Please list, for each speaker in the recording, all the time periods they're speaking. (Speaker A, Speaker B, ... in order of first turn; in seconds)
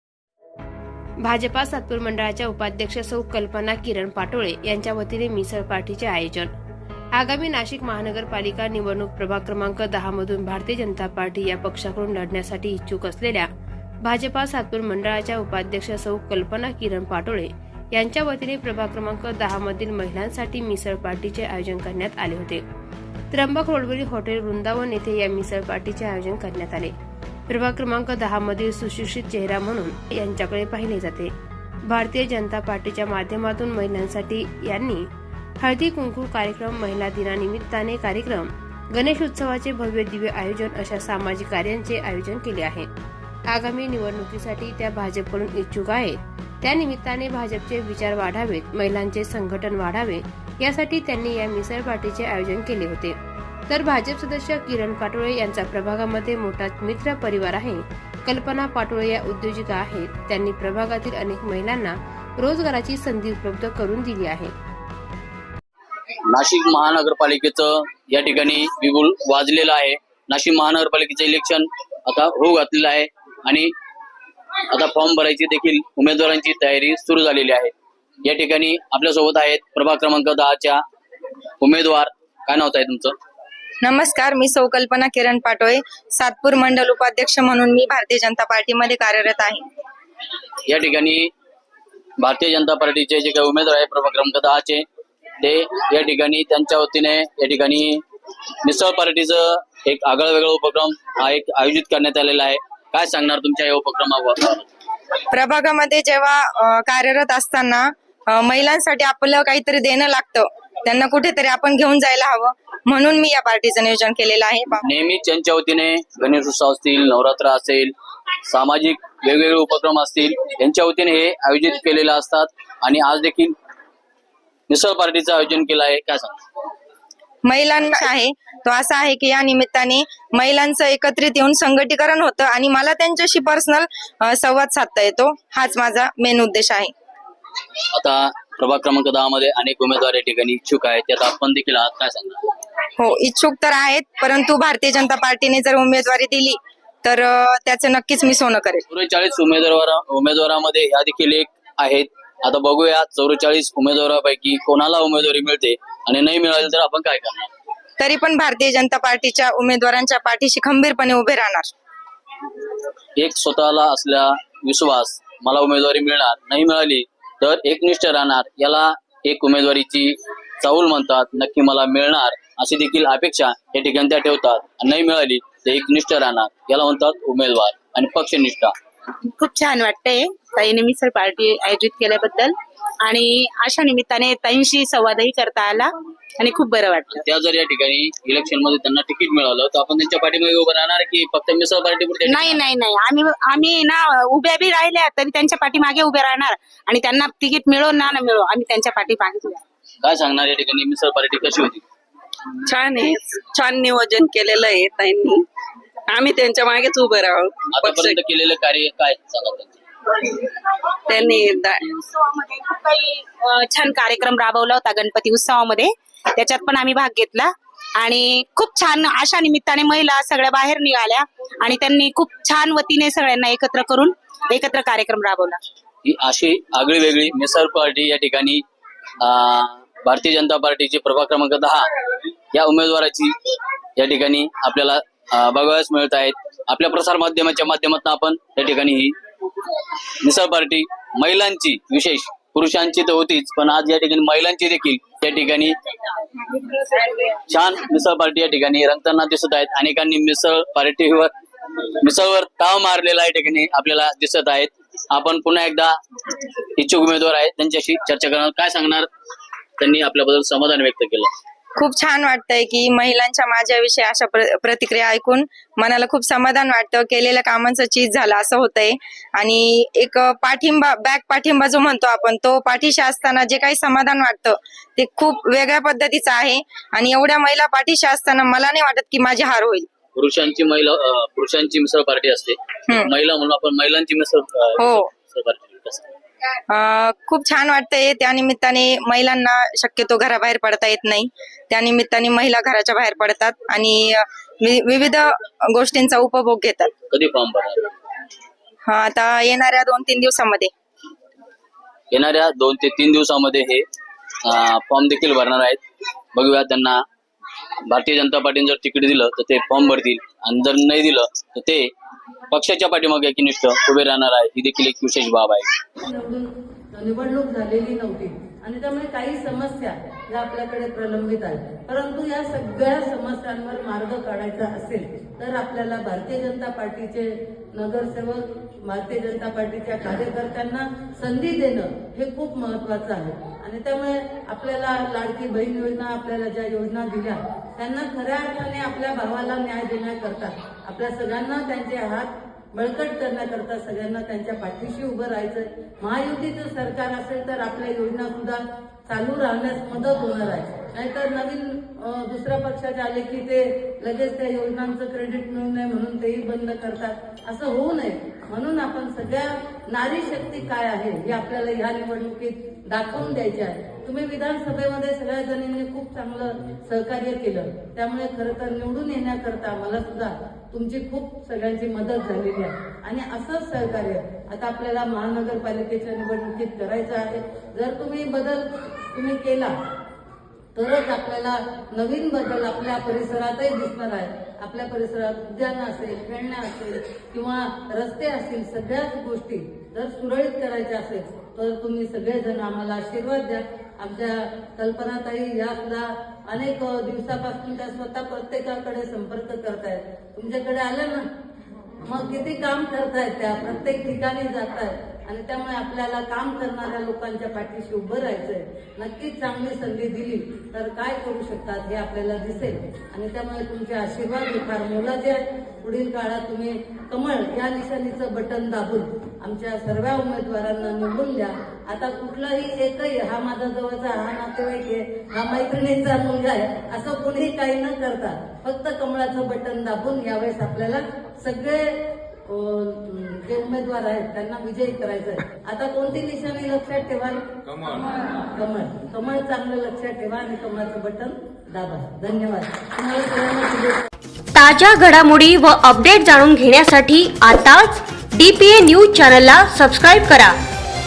Speaker A: 1.2-6.5, 7.2-13.5, 14.0-22.6, 23.3-26.9, 27.5-31.3, 31.9-35.1, 35.6-42.9, 43.5-53.1, 53.7-64.5
Speaker B: 66.3-73.7, 74.7-77.7, 78.2-80.8, 81.6-83.2, 90.7-91.3, 92.2-94.9, 95.4-98.0, 98.6-104.7, 114.8-117.9, 118.5-123.5, 124.7-126.4, 137.9-142.4, 148.9-157.5, 163.2-178.8, 187.1-192.6, 200.0-201.8, 207.7-209.8, 226.0-228.6, 229.2-231.9, 232.5-233.3, 234.0-239.2, 240.2-245.8, 246.8-251.3, 252.0-256.0, 256.8-259.1, 259.8-261.3, 280.1-286.1, 297.1-297.9, 302.1-303.9, 304.4-305.8, 306.4-307.0, 307.9-311.9, 312.5-315.7
Speaker C: 83.8-89.6, 105.3-114.8, 127.5-136.9, 143.0-148.8, 158.0-161.7, 261.8-279.9, 284.8-285.1, 286.7-296.9, 298.9-300.7
Speaker D: 179.4-187.2, 192.3-199.6, 212.3-225.6
Speaker E: 202.7-205.4, 206.1-208.2, 211.1-211.9
Speaker F: 316.0-379.7, 380.8-401.2, 402.0-437.4, 438.5-444.1
Speaker G: 444.6-450.6